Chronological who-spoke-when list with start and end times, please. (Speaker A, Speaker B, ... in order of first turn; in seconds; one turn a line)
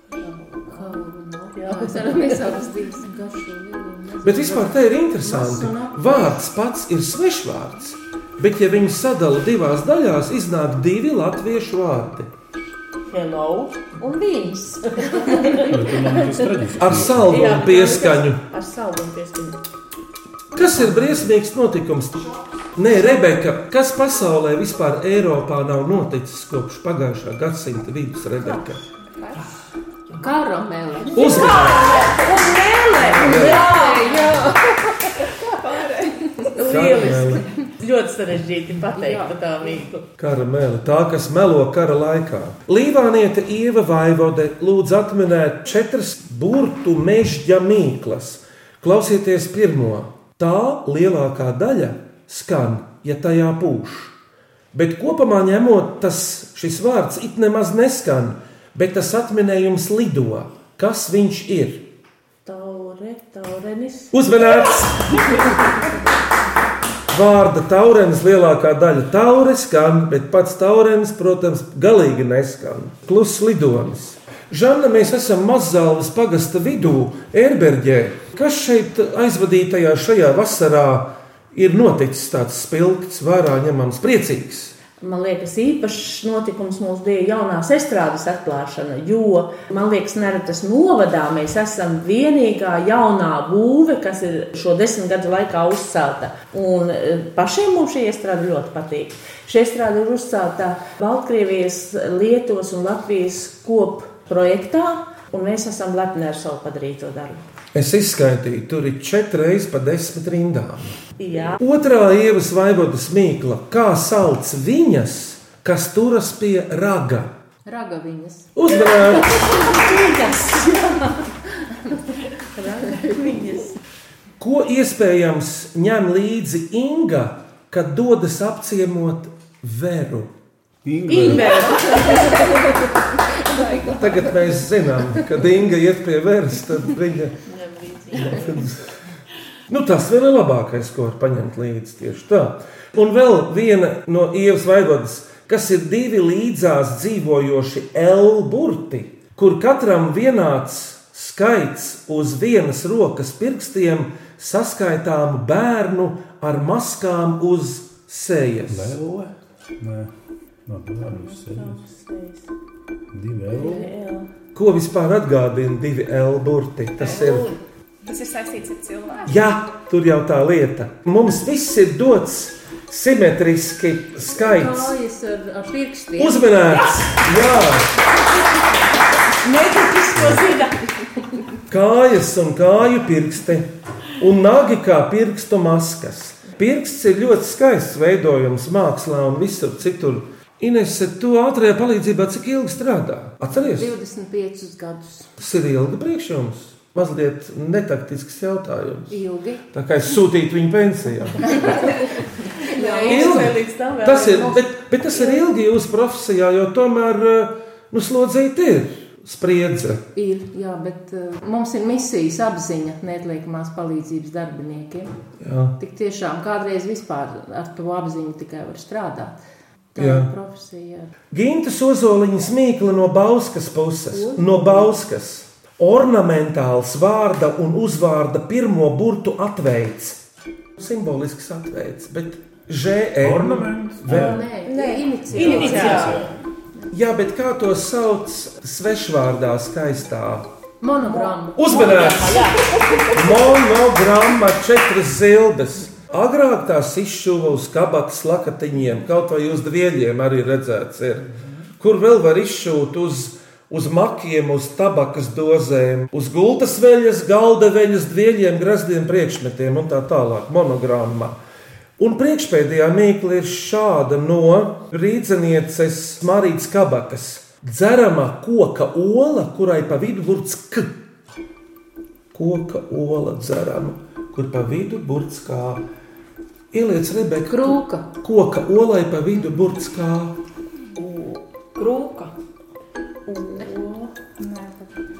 Speaker A: 0.2-6.4
Speaker B: 1.6-2.5
Speaker C: 4.2-12.3
Speaker B: 13.1-16.6
Speaker D: 15.6-17.5
Speaker C: 16.8-18.4
Speaker B: 17.2-19.6
Speaker C: 20.5-28.8
Speaker A: 30.2-31.8
Speaker C: 31.1-32.1
Speaker B: 31.2-34.2
Speaker C: 33.0-33.7
Speaker A: 33.2-34.6
Speaker E: 33.8-34.2
Speaker E: 35.6-36.1
Speaker B: 36.5-40.1
Speaker C: 36.6-37.5
Speaker A: 39.0-39.3
Speaker C: 40.2-54.1
Speaker C: 54.7-61.9
Speaker B: 62.5-64.1
Speaker C: 64.1-65.3
Speaker C: 67.1-84.8
Speaker B: 85.0-107.4
Speaker C: 107.7-110.9
Speaker B: 111.2-111.6
Speaker C: 111.6-117.3
Speaker A: 117.7-118.5
Speaker C: 118.5-119.8
Speaker B: 118.7-121.3
Speaker B: 122.5-123.8
Speaker C: 124.4-130.3
Speaker D: 130.8-131.7
Speaker B: 131.1-132.7
Speaker C: 134.0-137.3
Speaker F: 137.5-138.7
Speaker C: 138.3-138.8
Speaker C: 139.7-159.0
Speaker D: 158.7-160.1
Speaker D: 160.7-161.8
Speaker B: 161.0-162.5
Speaker D: 163.1-163.9
Speaker B: 163.5-164.3
Speaker C: 164.6-167.5
Speaker B: 167.1-167.5
Speaker E: 168.1-169.5
Speaker C: 169.2-174.9
Speaker A: 174.4-176.6
Speaker C: 176.2-177.9
Speaker B: 179.4-180.8
Speaker C: 181.7-193.9
Speaker A: 193.6-195.3
Speaker C: 195.4-199.2
Speaker A: 199.1-199.6
Speaker C: 199.7-201.8
Speaker B: 202.7-204.6
Speaker A: 202.7-203.5
Speaker C: 203.0-210.0
Speaker A: 210.2-215.1
Speaker C: 215.4-215.8
Speaker A: 215.8-219.3
Speaker A: 219.9-221.1
Speaker C: 220.0-220.3
Speaker C: 221.3-230.2
Speaker A: 224.1-224.9
Speaker C: 230.8-234.4
Speaker D: 233.2-234.4
Speaker A: 234.1-236.1
Speaker B: 234.1-236.3
Speaker D: 235.3-236.3
Speaker F: 235.4-236.2
Speaker C: 236.9-240.5
Speaker A: 240.8-242.1
Speaker B: 241.0-243.6
Speaker C: 241.6-242.5
Speaker C: 243.1-251.3
Speaker C: 251.8-261.4
Speaker C: 262.0-270.9
Speaker C: 272.3-275.8
Speaker C: 276.7-280.4
Speaker A: 277.5-278.1
Speaker F: 281.0-282.3
Speaker B: 283.3-284.1
Speaker E: 284.4-284.9